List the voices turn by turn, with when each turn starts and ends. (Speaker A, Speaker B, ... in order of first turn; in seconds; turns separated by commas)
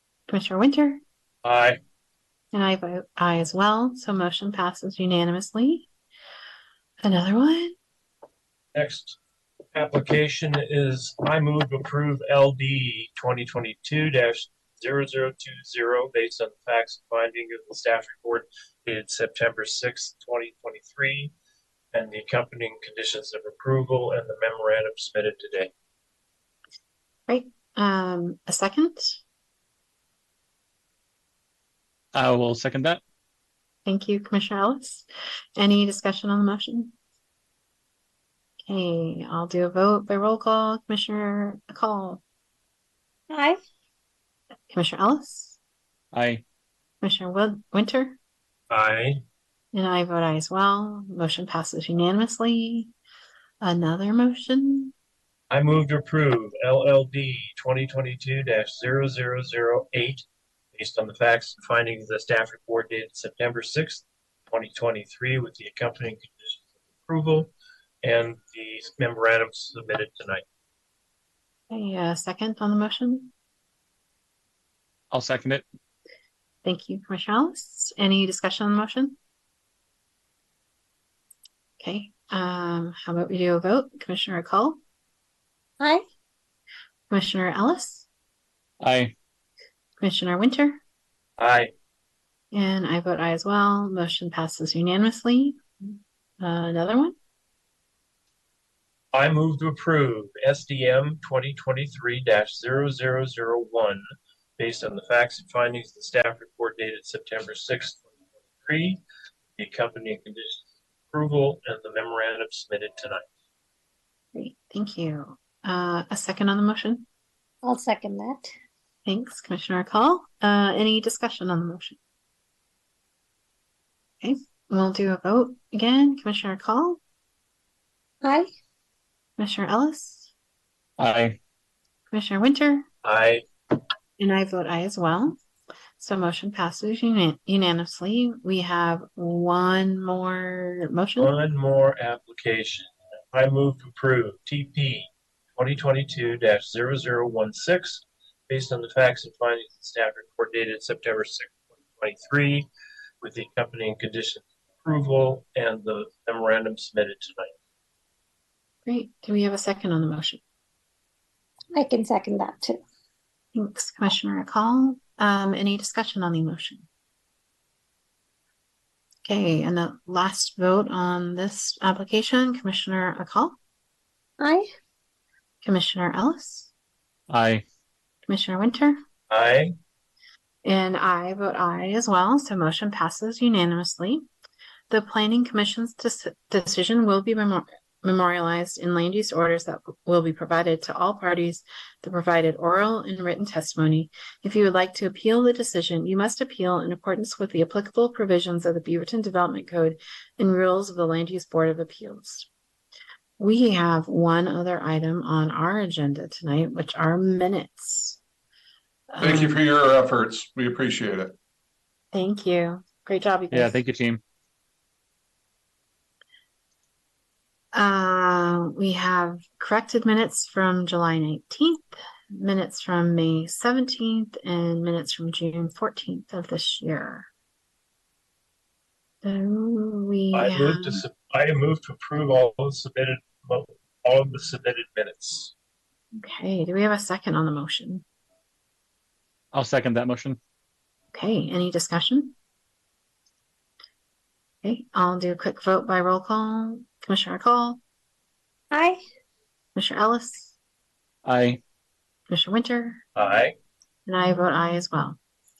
Speaker A: 0.3-1.0, Speaker B: 1.4-1.8, Speaker A: 2.5-5.9, Speaker A: 7.0-7.8, Speaker B: 8.8-9.2, Speaker B: 9.7-21.3, Speaker B: 21.9-25.7, Speaker A: 27.3-29.2, Speaker C: 32.1-33.0, Speaker A: 33.9-37.0, Speaker A: 38.7-42.2, Speaker D: 43.3-43.6, Speaker A: 44.7-45.6, Speaker C: 46.1-46.4, Speaker A: 47.0-48.2, Speaker B: 48.7-49.2, Speaker A: 49.7-52.9, Speaker A: 53.6-54.9, Speaker B: 55.5-67.5, Speaker B: 68.0-70.4, Speaker A: 71.7-73.3, Speaker C: 75.1-75.6, Speaker A: 76.6-79.2, Speaker A: 81.8-84.8, Speaker A: 87.1-88.1, Speaker C: 88.8-89.1, Speaker A: 90.0-90.8, Speaker B: 91.4-91.7, Speaker A: 92.5-97.1, Speaker B: 99.1-104.0, Speaker B: 104.6-108.1, Speaker B: 108.6-109.0, Speaker B: 109.6-113.2, Speaker A: 114.3-117.1, Speaker D: 117.6-118.5, Speaker A: 119.1-122.0, Speaker A: 124.2-127.0, Speaker D: 128.2-128.5, Speaker A: 129.4-130.3, Speaker C: 131.0-131.4, Speaker A: 132.1-132.9, Speaker B: 133.0-133.4, Speaker A: 134.2-135.4, Speaker A: 136.0-141.3, Speaker B: 141.2-152.7, Speaker B: 153.2-157.5, Speaker A: 158.8-160.4, Speaker D: 161.7-162.8, Speaker A: 163.5-166.8, Speaker A: 169.2-173.6, Speaker D: 174.4-174.7, Speaker A: 175.6-176.7, Speaker C: 177.3-177.6, Speaker A: 178.3-179.0, Speaker B: 179.3-179.7, Speaker A: 180.6-184.2, Speaker A: 184.9-202.5, Speaker A: 203.4-208.2, Speaker A: 209.1-209.5, Speaker E: 209.2-211.3, Speaker A: 212.1-213.8, Speaker C: 213.5-214.2, Speaker A: 217.7-227.3, Speaker A: 229.2-231.0, Speaker B: 230.3-235.5, Speaker A: 236.1-238.0, Speaker C: 239.5-240.4, Speaker A: 241.1-242.3, Speaker A: 244.6-247.8, Speaker D: 248.7-249.0, Speaker A: 249.7-250.5, Speaker C: 251.2-251.6, Speaker A: 252.3-253.0, Speaker B: 253.2-253.5, Speaker A: 254.1-255.2